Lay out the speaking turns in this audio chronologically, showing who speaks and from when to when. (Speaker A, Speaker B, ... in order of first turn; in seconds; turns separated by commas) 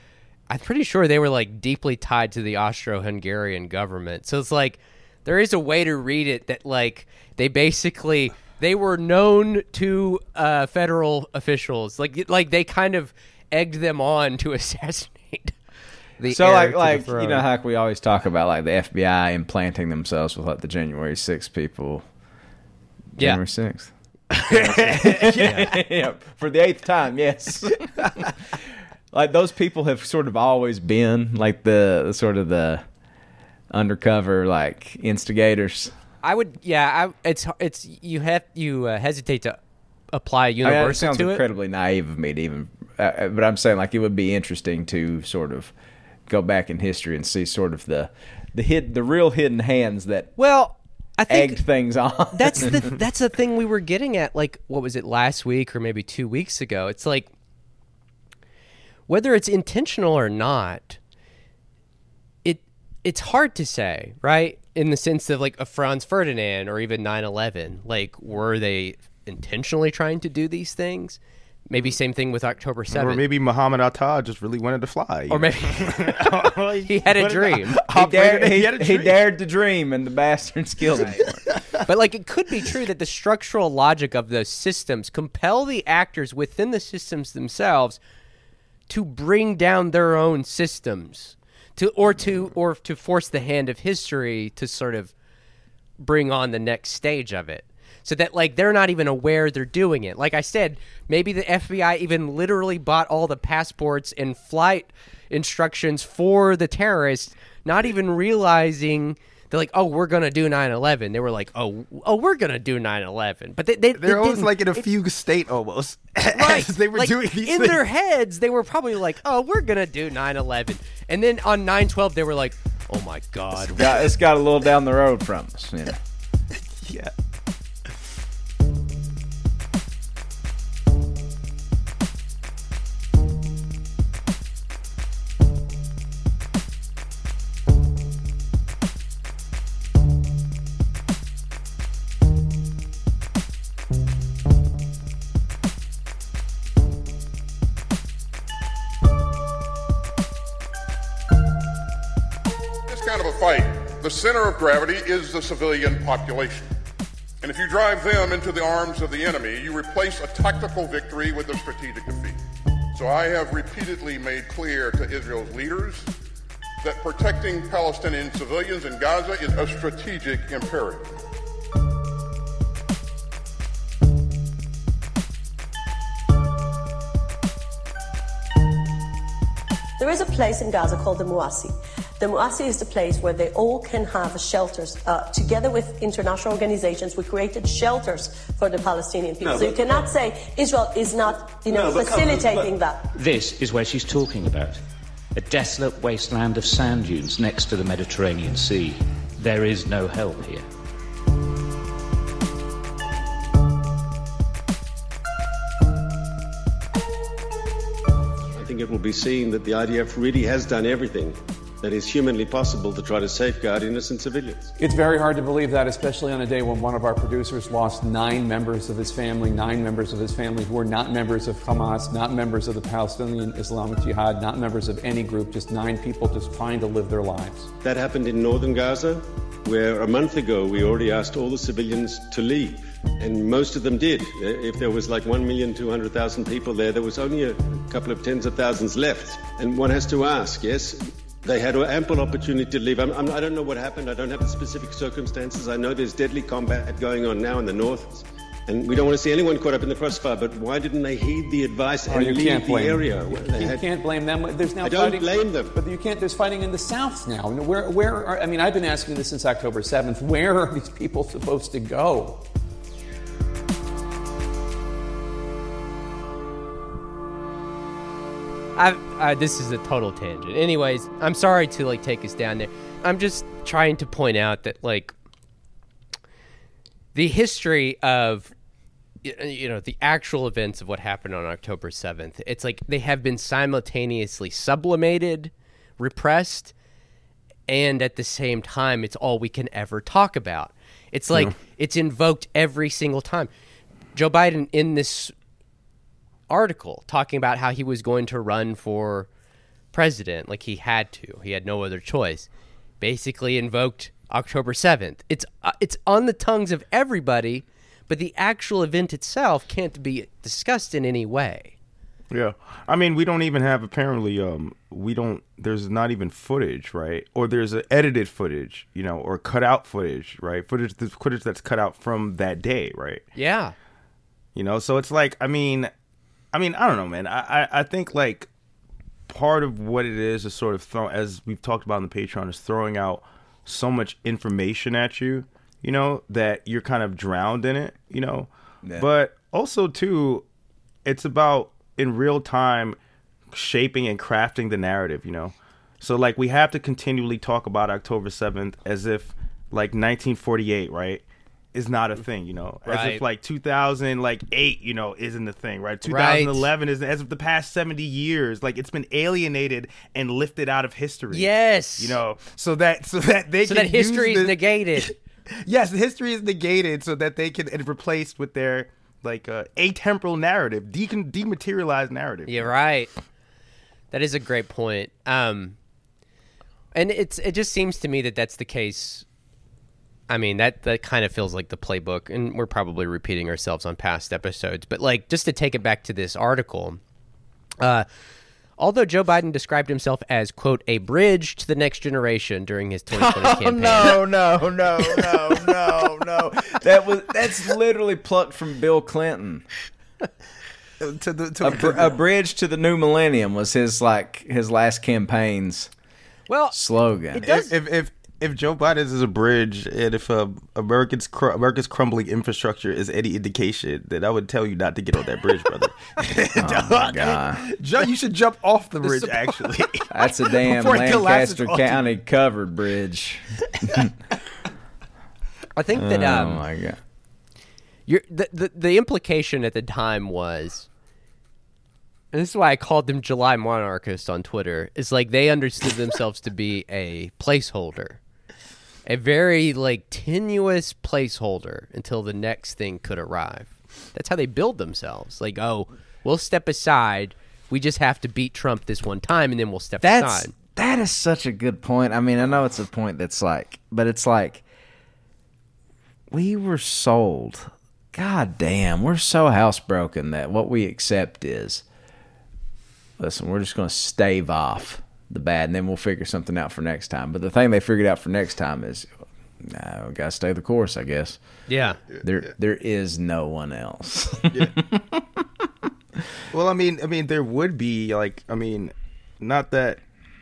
Speaker A: 0.5-15.6, Speaker A: 16.2-17.5, Speaker B: 16.3-22.1, Speaker B: 23.2-32.9, Speaker C: 24.3-25.8, Speaker A: 25.4-25.7, Speaker B: 33.7-36.0, Speaker A: 36.2-39.6, Speaker A: 40.1-41.4, Speaker B: 40.6-45.7, Speaker B: 46.3-50.3, Speaker A: 50.4-51.6, Speaker B: 51.3-52.9, Speaker A: 52.3-57.3, Speaker A: 59.1-61.0, Speaker A: 62.4-73.2, Speaker C: 72.9-79.2, Speaker A: 75.3-77.8, Speaker B: 77.9-81.4, Speaker A: 81.8-88.0, Speaker A: 88.9-95.1, Speaker A: 96.0-114.8, Speaker C: 114.0-117.8, Speaker A: 116.3-123.9, Speaker B: 123.6-126.0, Speaker C: 126.8-127.1, Speaker D: 152.9-156.7, Speaker D: 157.4-162.4, Speaker D: 162.9-166.1, Speaker D: 166.8-171.1, Speaker E: 180.0-193.1, Speaker F: 189.4-190.1, Speaker F: 191.7-194.8, Speaker F: 195.3-200.7, Speaker G: 208.5-214.7, Speaker H: 214.8-227.7, Speaker G: 227.8-253.8, Speaker C: 252.1-253.0, Speaker H: 252.1-262.4, Speaker G: 254.8-255.7, Speaker A: 268.8-275.1, Speaker A: 277.1-278.5, Speaker A: 279.2-286.7, Speaker A: 287.7-293.5, Speaker A: 294.1-295.3, Speaker A: 296.5-299.3, Speaker A: 299.9-302.5, Speaker A: 303.0-311.7, Speaker C: 312.3-323.3, Speaker A: 323.4-323.8, Speaker C: 324.6-325.9, Speaker C: 326.5-328.5, Speaker C: 329.3-340.5, Speaker C: 341.1-343.0, Speaker C: 343.5-372.7, Speaker A: 352.9-353.2, Speaker A: 356.1-356.7, Speaker A: 361.3-362.2, Speaker A: 363.6-365.1, Speaker A: 372.5-373.1, Speaker A: 374.1-375.8, Speaker A: 376.9-379.3, Speaker A: 380.3-387.0, Speaker A: 387.8-388.1, Speaker A: 388.8-394.2, Speaker B: 393.1-399.7, Speaker C: 401.0-402.2, Speaker B: 401.6-405.9, Speaker A: 406.5-406.8, Speaker B: 406.7-407.5, Speaker A: 407.3-407.7, Speaker C: 407.4-422.1, Speaker B: 416.6-417.6, Speaker A: 419.0-419.6, Speaker B: 420.1-424.1, Speaker A: 425.8-426.6, Speaker B: 425.9-427.0, Speaker A: 428.1-430.9, Speaker A: 432.3-438.2, Speaker A: 439.1-450.5, Speaker B: 450.0-454.6, Speaker B: 456.3-461.8, Speaker B: 463.2-471.4, Speaker A: 471.7-472.0, Speaker B: 472.2-475.0, Speaker C: 474.5-474.8, Speaker C: 476.5-480.0